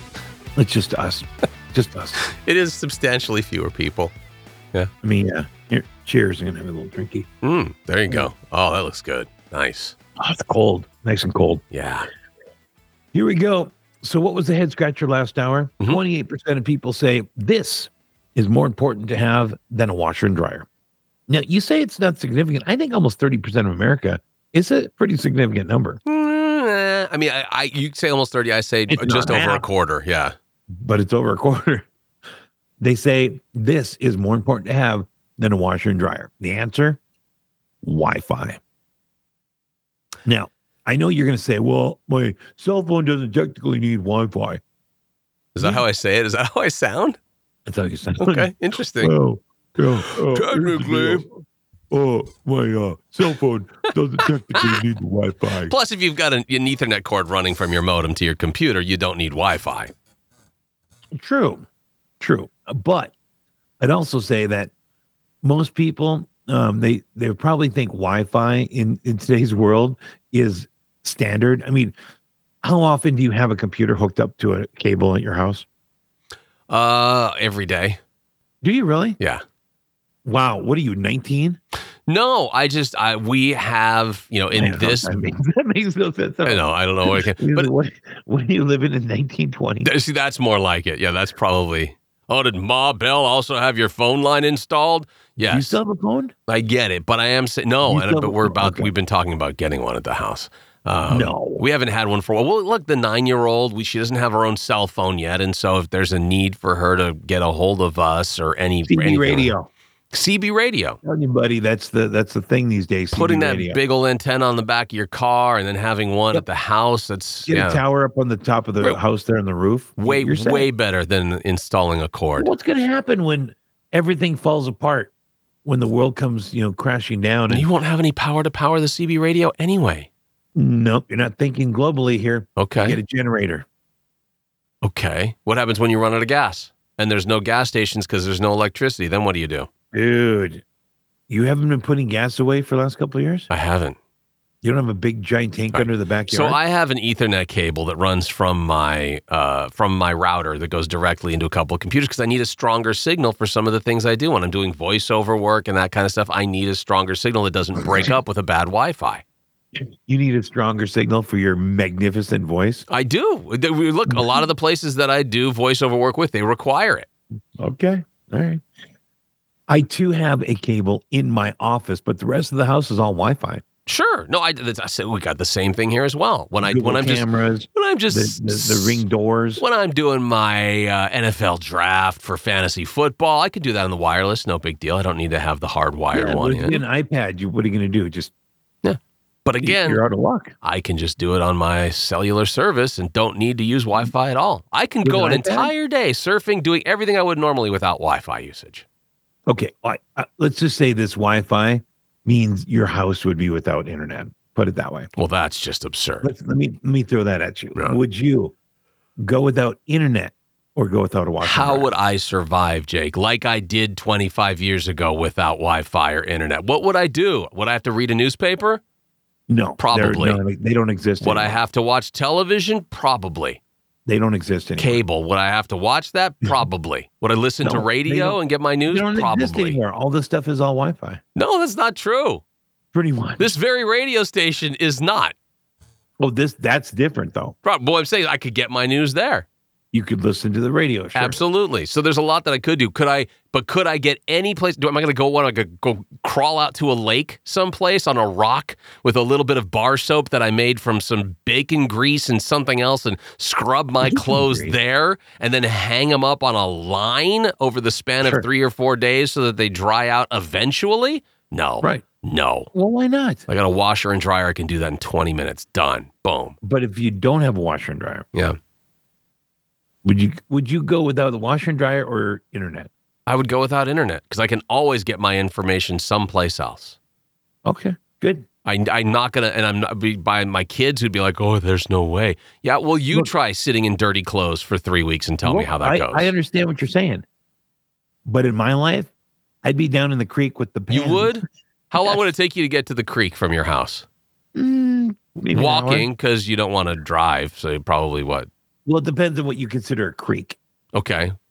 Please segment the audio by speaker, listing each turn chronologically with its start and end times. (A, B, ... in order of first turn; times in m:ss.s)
0:00.6-0:02.2 A
0:02.2-0:04.1 B
0:05.0-0:07.3 A
0:07.4-0:10.0 B
0:10.2-0:11.6 A
0:11.7-0:12.1 B
0:13.1-0:20.7 A
0:21.3-0:26.0 A
0:26.1-0:30.3 B
0:28.9-0:29.7 A
0:30.8-0:31.9 A
0:32.8-0:37.0 A
0:37.8-0:38.6 A
0:40.3-0:44.6 A
0:45.6-0:47.2 B
0:45.6-0:45.8 A
0:47.7-0:51.3 A
0:48.2-0:49.1 B
0:50.1-0:51.2 B
0:51.9-0:55.8 A
0:54.6-0:54.8 B
0:55.6-0:59.9 B
1:01.1-1:01.6 A
1:02.2-1:03.1 A
1:03.8-1:04.7 A
1:05.4-1:12.0 A
1:12.6-1:15.6 A
1:16.7-1:18.0 B
1:18.6-1:19.2 A
1:20.2-1:21.6 A
1:22.1-1:25.2 B
1:24.6-1:29.9 A
1:26.5-1:27.7 B
1:29.8-1:35.8 B
1:35.4-1:36.3 A
1:36.5-1:49.5 B
1:37.9-1:38.9 A
1:41.1-1:41.7 A
1:48.9-1:49.7 A
1:50.1-1:51.0 B
1:51.0-1:53.8 A
1:53.1-1:57.8 B
1:57.5-2:00.7 A
2:00.0-2:02.5 B
2:02.4-2:05.1 A
2:05.6-2:07.7 A
2:07.5-2:10.1 B
2:10.6-2:13.6 A
2:12.6-2:13.0 B
2:14.8-2:19.7 B
2:19.9-2:20.6 A
2:21.3-2:23.5 A
2:23.5-2:24.0 B
2:24.6-2:26.6 A
2:25.7-2:39.2 B
2:40.1-2:42.9 A
2:42.9-2:47.1 B
2:44.1-2:44.4 A
2:47.6-2:48.6 A
2:49.7-2:53.6 A
2:53.9-2:59.0 B
2:56.6-2:59.6 A
2:59.6-3:06.8 B
3:06.1-3:08.3 A
3:08.8-3:10.0 B
3:09.6-3:10.5 A
3:10.6-3:18.8 B
3:15.0-3:15.7 A
3:19.5-3:25.1 A
3:25.2-3:26.3 B
3:26.2-3:28.5 A
3:29.2-3:32.0 A
3:31.4-3:38.8 B
3:39.5-3:41.6 A
3:39.8-3:40.4 B
3:41.2-3:43.6 B
3:44.1-3:45.0 A
3:44.8-3:49.8 B
3:47.6-3:51.2 A
3:51.4-3:52.4 B
3:52.9-3:53.5 A
3:53.4-3:55.4 B
3:56.2-3:57.6 A
3:57.6-3:59.5 B
3:59.9-4:01.4 A
4:01.2-4:22.7 B
4:14.0-4:14.8 A
4:18.2-4:18.5 A
4:22.7-4:23.5 A
4:23.5-4:26.6 B
4:26.6-4:28.3 A
4:30.0-4:32.9 A
4:33.3-4:37.0 B
4:37.6-4:38.5 A
4:38.6-4:46.3 B
4:45.4-4:47.2 A
4:48.3-4:49.1 A
4:49.6-4:51.4 A
4:50.9-4:54.1 B
4:52.0-4:52.2 A
4:54.6-4:56.1 A
4:55.5-4:58.5 B
4:58.9-5:00.6 A
5:00.9-5:01.3 B